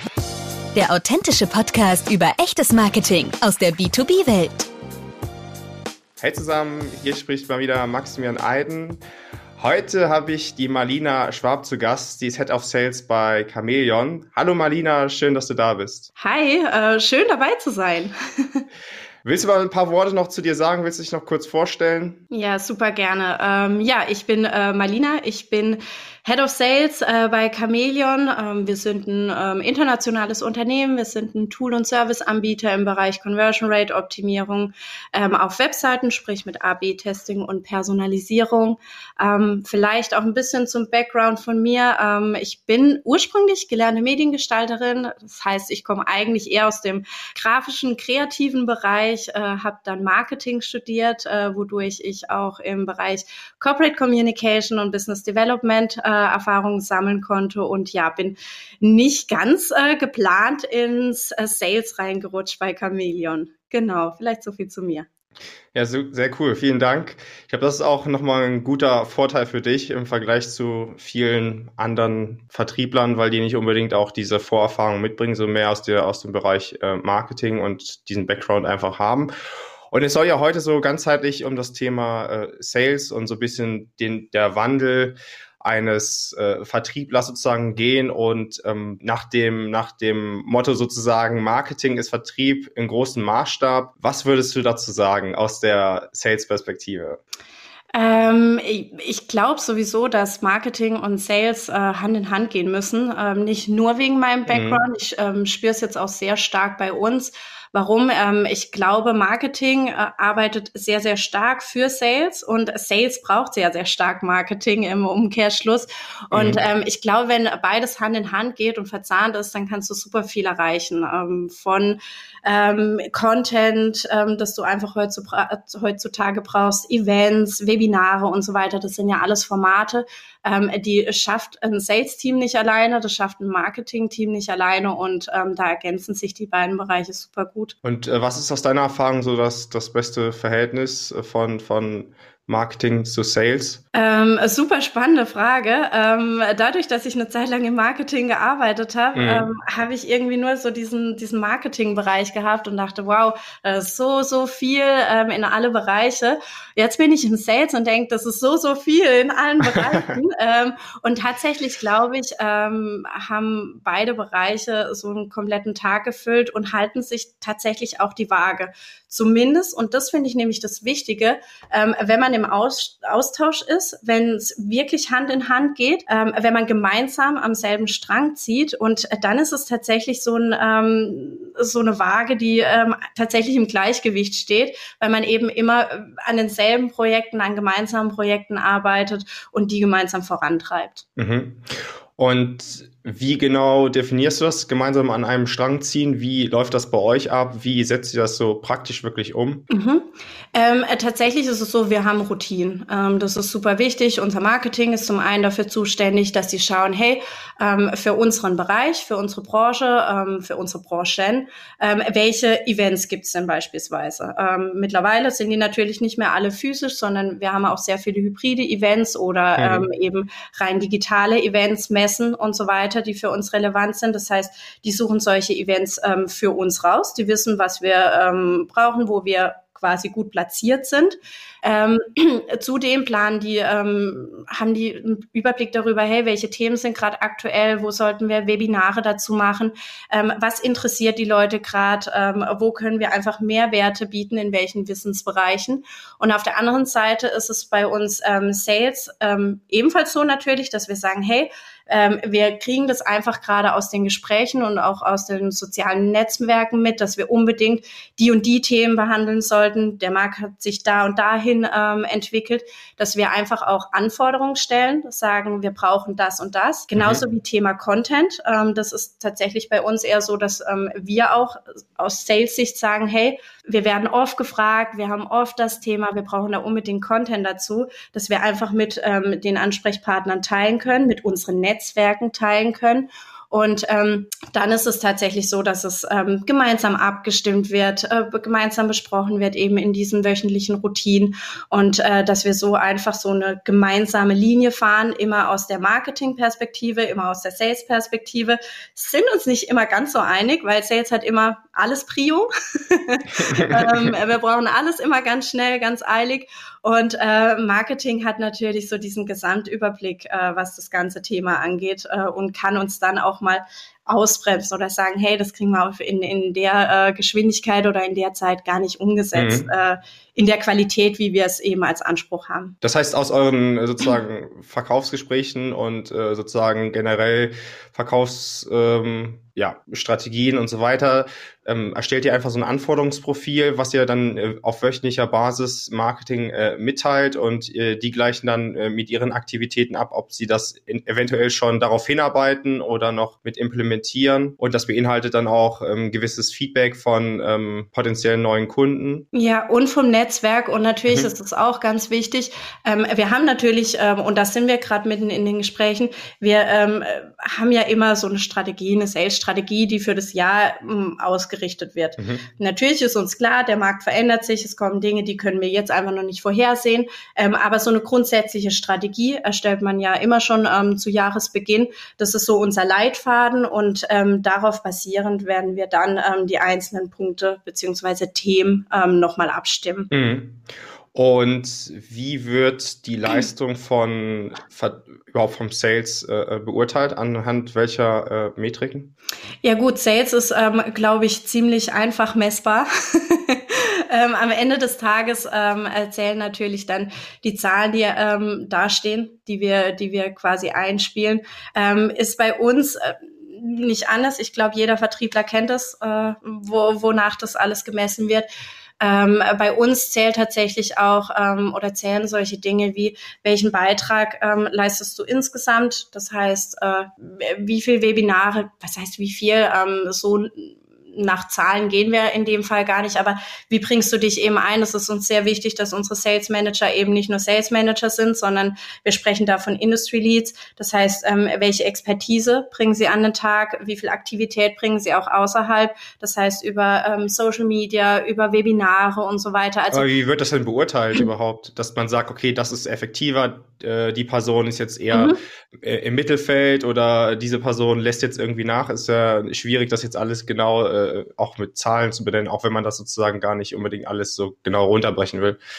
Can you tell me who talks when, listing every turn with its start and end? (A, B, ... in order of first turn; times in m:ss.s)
0:00.7-0:04.7 A
0:06.2-0:09.0 B
0:09.6-0:16.1 B
0:16.2-0:18.6 C
0:19.2-0:22.2 B
0:22.3-1:05.1 C
1:05.7-1:19.3 B
1:19.9-1:37.2 B
1:37.9-2:17.8 C
1:44.5-1:44.8 B
1:56.3-1:56.6 B
2:17.8-2:23.8 B
2:23.9-3:11.0 C
2:29.2-2:29.5 B
3:11.2-3:19.6 B
3:19.7-5:22.8 C
3:39.6-3:39.9 B
4:27.0-4:27.2 B
5:03.4-5:04.1 B
5:19.4-5:19.7 B
5:22.8-5:49.2 B
5:49.3-6:20.1 C
6:02.2-6:02.4 B
6:20.1-6:29.1 B
6:29.6-6:48.5 C
6:49.0-7:20.1 C
7:19.9-7:35.6 B
7:25.1-7:25.4 C